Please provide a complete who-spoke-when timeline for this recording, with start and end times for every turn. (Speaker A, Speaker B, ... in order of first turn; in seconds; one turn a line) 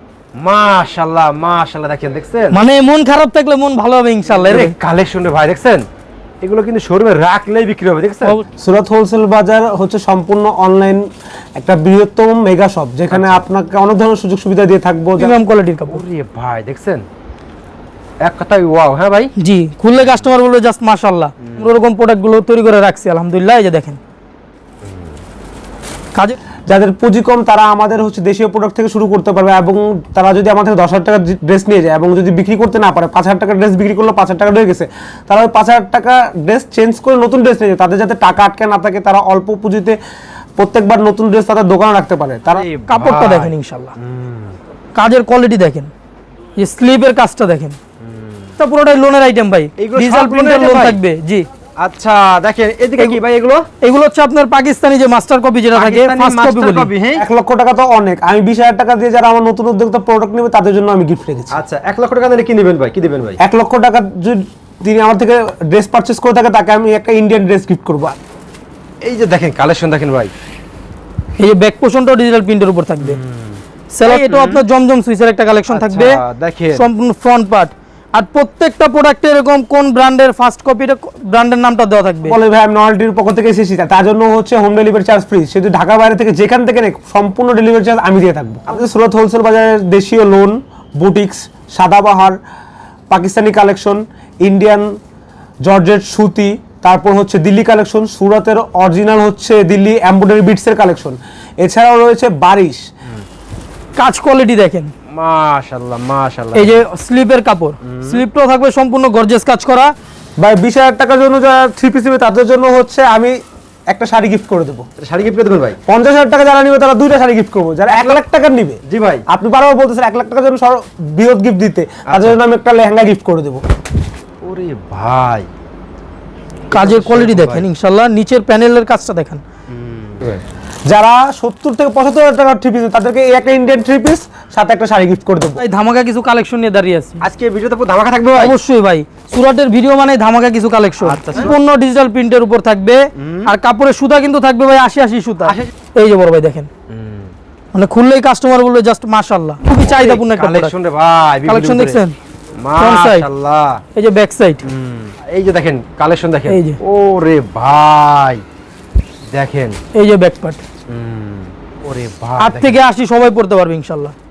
Speaker A: 0.4-2.6
Speaker B: 2.5-4.7
Speaker A: 4.3-5.9
Speaker A: 6.4-8.4
Speaker C: 8.6-11.0
Speaker C: 11.6-15.4
Speaker A: 13.1-13.5
Speaker B: 15.2-16.0
Speaker A: 15.9-17.1
Speaker A: 18.2-19.3
Speaker B: 19.4-24.0
Speaker A: 21.4-21.7
Speaker A: 24.8-25.1
Speaker C: 26.7-40.0
Speaker C: 40.6-42.7
Speaker A: 42.5-44.6
Speaker B: 42.9-43.9
Speaker B: 45.0-45.9
Speaker B: 46.6-47.8
Speaker A: 48.0-48.5
Speaker B: 48.6-51.5
Speaker A: 49.8-51.0
Speaker A: 51.8-53.7
Speaker B: 53.8-56.9
Speaker A: 55.7-57.2
Speaker C: 57.2-61.6
Speaker A: 61.5-63.4
Speaker C: 63.4-68.2
Speaker A: 69.0-70.3
Speaker B: 71.4-73.2
Speaker A: 73.0-74.6
Speaker B: 73.9-76.2
Speaker A: 75.7-76.9
Speaker B: 76.7-82.4
Speaker C: 82.2-92.4
Speaker C: 93.1-95.0
Speaker C: 95.6-102.8
Speaker B: 104.0-104.9
Speaker A: 105.1-106.8
Speaker B: 106.5-109.9
Speaker A: 107.8-108.2
Speaker C: 110.4-113.4
Speaker C: 113.9-114.9
Speaker A: 115.0-115.8
Speaker C: 115.9-123.6
Speaker A: 117.9-118.2
Speaker A: 118.9-119.2
Speaker A: 122.1-122.4
Speaker A: 124.4-125.5
Speaker A: 126.7-127.7
Speaker B: 126.7-129.4
Speaker A: 129.7-130.4
Speaker C: 130.9-135.6
Speaker B: 135.6-137.2
Speaker A: 137.2-138.6
Speaker B: 138.4-146.7
Speaker A: 141.0-141.5
Speaker A: 143.2-143.5
Speaker A: 145.4-145.7
Speaker A: 146.9-147.3
Speaker B: 147.7-150.7
Speaker A: 149.7-152.0
Speaker B: 151.5-152.2
Speaker A: 152.6-153.8
Speaker B: 152.8-153.3
Speaker B: 153.9-154.7
Speaker A: 154.6-158.4
Speaker B: 156.5-156.8
Speaker A: 159.3-159.8
Speaker B: 159.9-160.6
Speaker A: 160.9-162.8
Speaker B: 162.4-164.1